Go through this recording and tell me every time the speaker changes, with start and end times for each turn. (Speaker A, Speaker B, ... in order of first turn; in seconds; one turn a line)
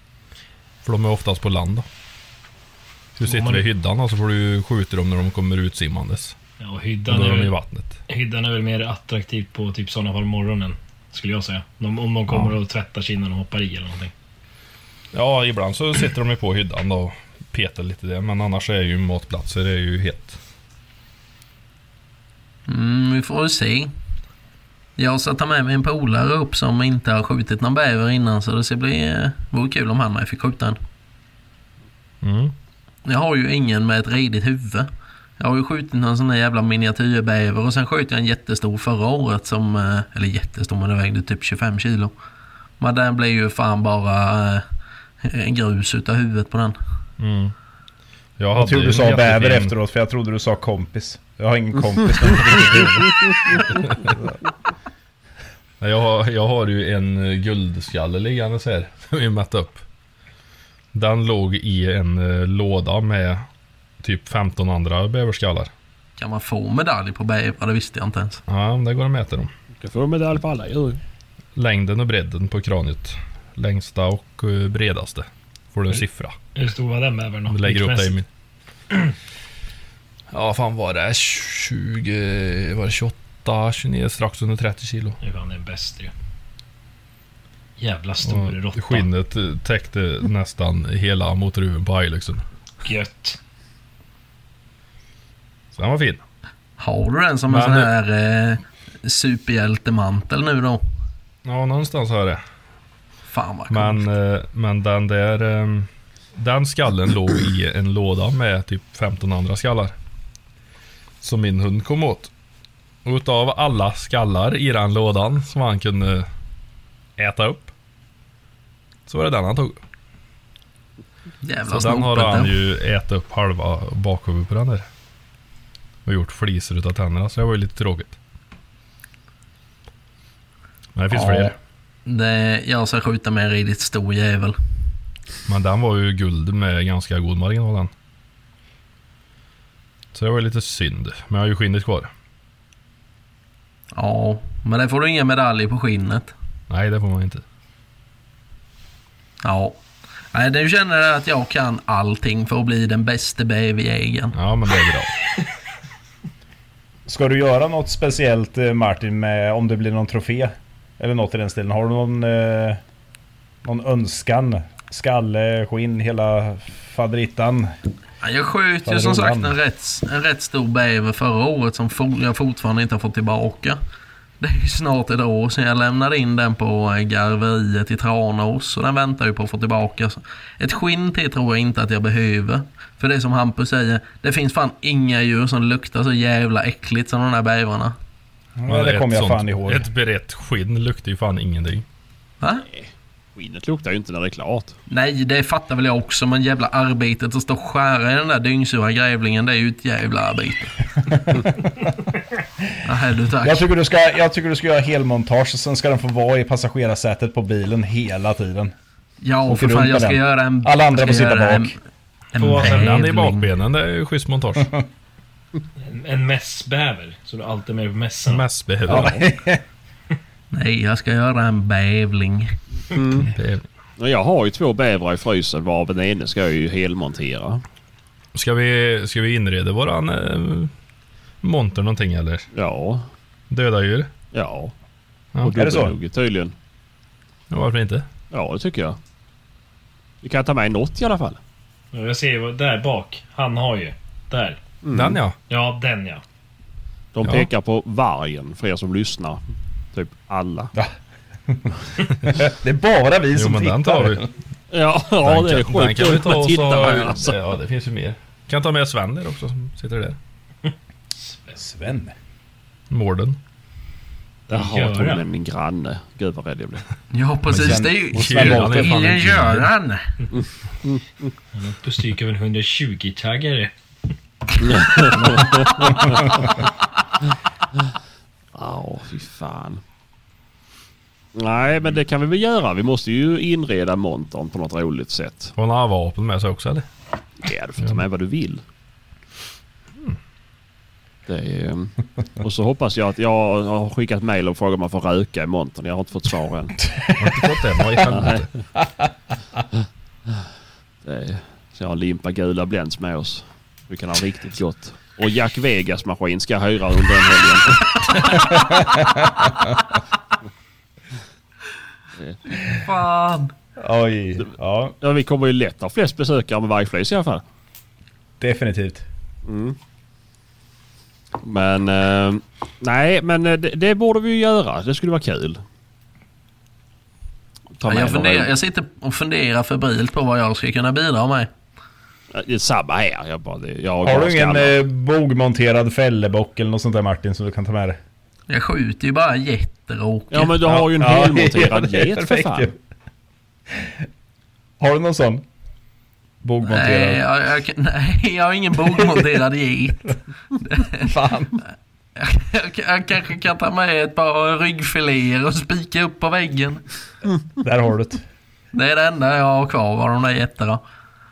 Speaker A: 0.8-1.9
Speaker A: 3.2-6.3
Speaker B: 3.2-3.6
Speaker B: 6.6-7.5
Speaker A: 7.1-8.0
Speaker B: 8.1-14.1
Speaker A: 12.3-12.6
Speaker A: 15.1-20.4
Speaker C: 22.7-23.9
Speaker C: 25.0-30.8
Speaker A: 32.2-32.5
Speaker C: 33.1-42.1
Speaker C: 42.8-44.6
Speaker C: 45.2-46.8
Speaker A: 47.2-47.5
Speaker A: 48.4-49.7
Speaker D: 48.5-54.4
Speaker A: 53.8-54.1
Speaker A: 55.8-59.8
Speaker A: 60.9-63.5
Speaker A: 64.0-65.7
Speaker C: 66.2-68.4
Speaker A: 68.5-69.5
Speaker E: 69.8-71.0
Speaker A: 71.5-76.4
Speaker B: 76.5-78.2
Speaker A: 77.5-78.3
Speaker A: 80.3-85.2
Speaker B: 85.2-86.1
Speaker B: 87.8-89.1
Speaker A: 88.2-92.4
Speaker B: 92.8-93.4
Speaker A: 95.7-96.2
Speaker C: 96.8-100.8
Speaker A: 97.5-97.9
Speaker A: 101.5-102.4
Speaker C: 103.3-104.1
Speaker A: 103.7-109.9
Speaker A: 111.2-112.3
Speaker A: 113.0-116.3
Speaker A: 117.2-117.7
Speaker A: 119.1-119.8
Speaker C: 121.4-122.5
Speaker A: 121.7-124.8
Speaker A: 126.1-128.2
Speaker A: 130.9-131.6
Speaker C: 131.1-131.5
Speaker C: 132.1-134.6
Speaker A: 135.5-137.9
Speaker A: 140.1-142.1
Speaker C: 143.9-146.3
Speaker A: 146.7-147.4
Speaker C: 149.4-149.8
Speaker C: 150.3-154.4
Speaker A: 154.3-155.1
Speaker D: 157.1-162.8
Speaker D: 163.6-167.7
Speaker C: 168.2-173.8
Speaker D: 168.8-169.6
Speaker C: 174.4-187.9
Speaker D: 188.6-189.9
Speaker A: 188.7-191.8
Speaker E: 192.6-194.8
Speaker C: 194.9-200.8
Speaker D: 201.1-201.9
Speaker C: 202.8-203.7
Speaker D: 203.4-208.7
Speaker C: 209.2-211.8
Speaker D: 209.5-211.8
Speaker C: 212.3-213.5
Speaker B: 212.4-213.0
Speaker A: 212.5-214.8
Speaker B: 215.8-218.4
Speaker A: 218.3-219.2
Speaker D: 218.9-219.6
Speaker C: 220.5-222.5
Speaker E: 222.9-223.3
Speaker A: 223.3-223.7
Speaker E: 224.0-227.6
Speaker A: 228.3-230.7
Speaker A: 231.4-232.5
Speaker E: 232.5-233.1
Speaker A: 233.5-234.1
Speaker E: 234.3-234.7
Speaker A: 235.3-235.6
Speaker E: 235.4-236.5
Speaker D: 235.5-235.9
Speaker A: 237.5-238.1
Speaker E: 238.3-239.0
Speaker E: 240.2-241.4
Speaker B: 241.9-244.6
Speaker E: 244.8-245.2
Speaker A: 244.9-245.4
Speaker B: 245.5-246.2
Speaker E: 247.1-249.4
Speaker E: 249.9-250.7
Speaker D: 251.5-254.3
Speaker A: 253.3-254.2
Speaker E: 254.7-257.4
Speaker A: 255.2-260.2
Speaker B: 261.2-261.6
Speaker D: 261.6-262.1
Speaker A: 262.9-263.4
Speaker B: 264.5-265.2
Speaker E: 264.5-266.9
Speaker C: 267.1-270.1
Speaker A: 267.5-269.7
Speaker D: 267.5-269.0
Speaker E: 270.3-271.3
Speaker B: 271.5-273.7
Speaker E: 274.6-276.6
Speaker B: 275.0-275.6
Speaker D: 275.8-276.1
Speaker E: 278.6-279.8
Speaker E: 281.4-285.5
Speaker A: 285.6-286.9
Speaker E: 287.4-288.6
Speaker E: 291.3-296.9
Speaker D: 297.0-297.5
Speaker A: 297.2-298.5
Speaker E: 298.1-298.4
Speaker E: 301.0-308.4
Speaker D: 308.3-309.8
Speaker C: 312.6-313.5
Speaker D: 313.8-314.9
Speaker E: 315.0-317.4
Speaker D: 318.4-319.1
Speaker E: 319.5-319.8
Speaker E: 321.4-325.6
Speaker E: 327.8-328.5
Speaker C: 327.9-331.5
Speaker E: 332.3-334.8
Speaker D: 334.0-338.0
Speaker C: 338.5-340.6
Speaker E: 340.3-342.7
Speaker D: 340.7-342.8
Speaker D: 344.8-345.4
Speaker D: 346.4-347.2
Speaker C: 346.7-351.1
Speaker D: 351.0-351.6
Speaker C: 352.2-356.8
Speaker D: 357.6-358.2
Speaker C: 358.7-360.8